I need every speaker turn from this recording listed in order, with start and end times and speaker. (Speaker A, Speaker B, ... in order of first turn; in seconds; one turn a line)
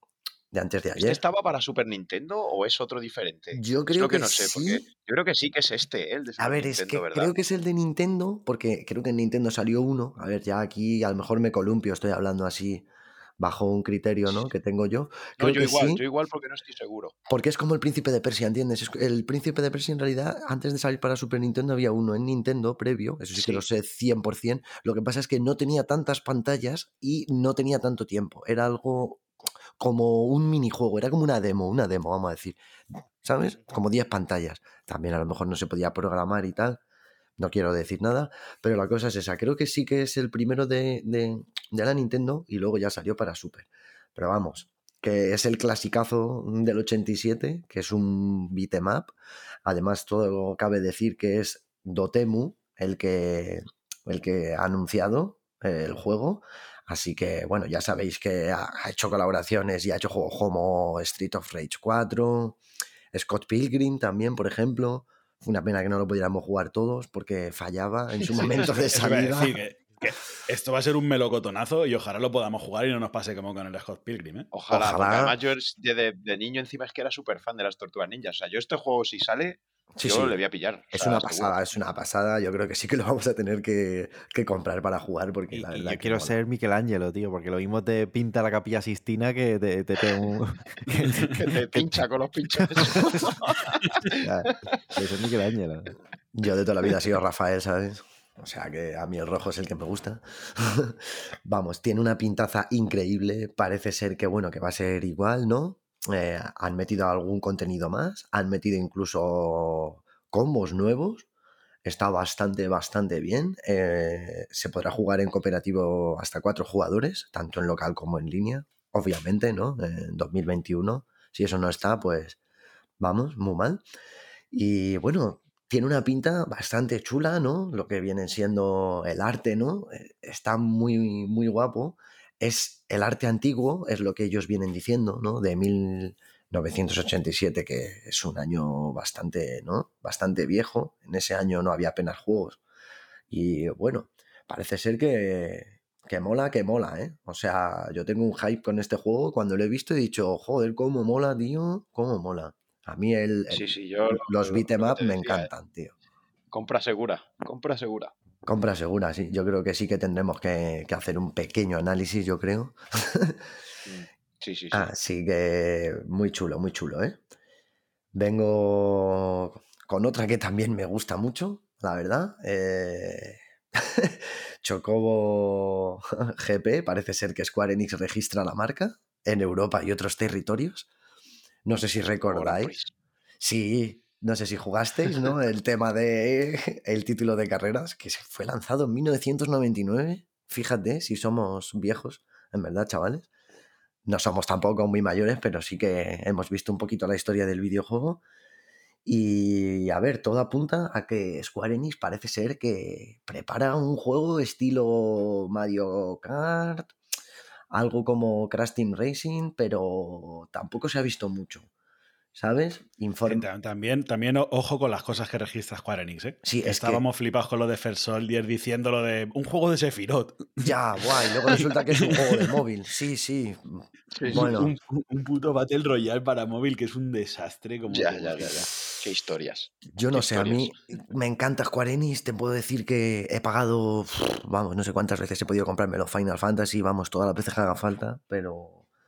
Speaker A: 0.5-1.2
Speaker B: 0.9-7.3
Speaker A: 3.5-4.8
Speaker A: 6.4-12.9
Speaker A: 13.4-16.0
Speaker B: 15.4-17.1
Speaker A: 17.3-29.3
Speaker B: 23.3-23.6
Speaker A: 29.8-32.6
Speaker A: 33.2-36.8
Speaker A: 37.4-49.1
Speaker A: 49.6-62.6
Speaker A: 63.1-69.6
Speaker C: 68.4-74.5
Speaker B: 74.5-81.5
Speaker A: 74.7-75.4
Speaker A: 79.9-80.4
Speaker A: 80.9-86.3
Speaker D: 85.5-92.0
Speaker B: 91.2-94.2
Speaker D: 92.9-93.2
Speaker D: 94.2-95.9
Speaker A: 96.3-111.2
Speaker A: 111.8-122.4
Speaker A: 123.0-123.8
Speaker A: 124.5-142.6
Speaker A: 143.3-155.9
Speaker B: 153.5-155.5
Speaker B: 156.5-158.1
Speaker A: 158.4-163.4
Speaker B: 163.8-164.9
Speaker A: 164.7-167.2
Speaker A: 168.1-180.9
Speaker A: 181.6-182.8
Speaker B: 182.3-182.9
Speaker A: 183.4-193.3
Speaker A: 194.1-198.2
Speaker A: 199.1-206.9
Speaker A: 207.7-211.7
Speaker A: 212.3-213.4
Speaker C: 213.2-222.5
Speaker A: 216.4-217.0
Speaker A: 220.6-224.7
Speaker B: 224.1-224.5
Speaker C: 224.2-228.7
Speaker B: 227.9-230.7
Speaker A: 229.9-238.8